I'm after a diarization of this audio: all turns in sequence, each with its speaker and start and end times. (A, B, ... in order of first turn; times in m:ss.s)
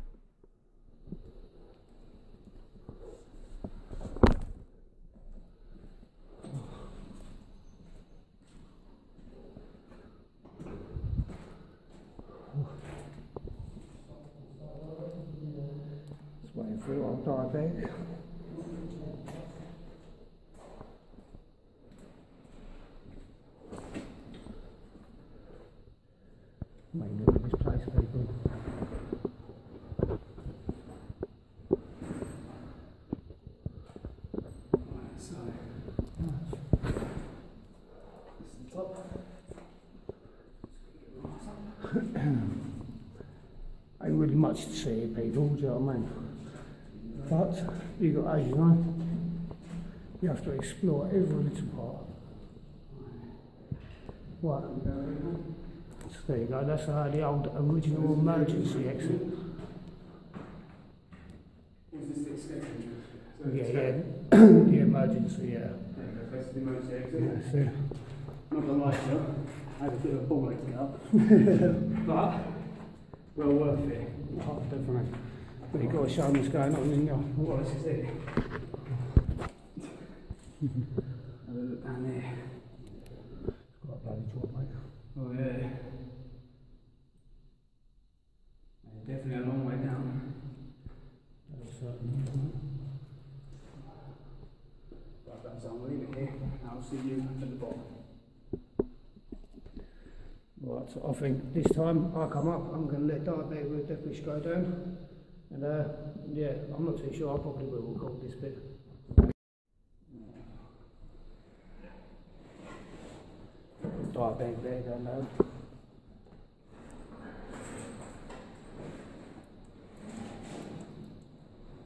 0:12.5-0:12.9 A
0:16.1-0:18.5 A
0:26.9-0:28.5 A
0:34.8-0:36.1 B
0:36.2-0:36.9 A
0:38.4-0:39.7 B
0:40.6-0:42.0 B
0:44.0-0:49.4 A
0:46.9-0:47.5 B
0:50.2-0:52.3 A
0:52.9-0:54.0 B
0:54.4-0:54.8 A
0:54.6-0:55.8 B
0:55.9-0:59.4 A
0:57.8-0:59.6 B
1:01.9-1:04.0 B
1:03.4-1:05.9 A
1:05.9-1:14.4 B
1:07.2-1:08.1 A
1:11.3-1:11.8 A
1:14.2-1:17.6 A
1:15.7-1:16.1 B
1:17.4-1:18.6 B
1:21.4-1:23.4 B
1:23.6-1:25.0 A
1:25.1-1:26.1 B
1:28.8-1:30.7 B
1:31.5-1:32.9 A
1:33.9-1:34.4 B
1:35.2-1:38.0 B
1:40.6-1:48.8 A
1:50.1-1:50.9 B
1:53.9-1:55.7 A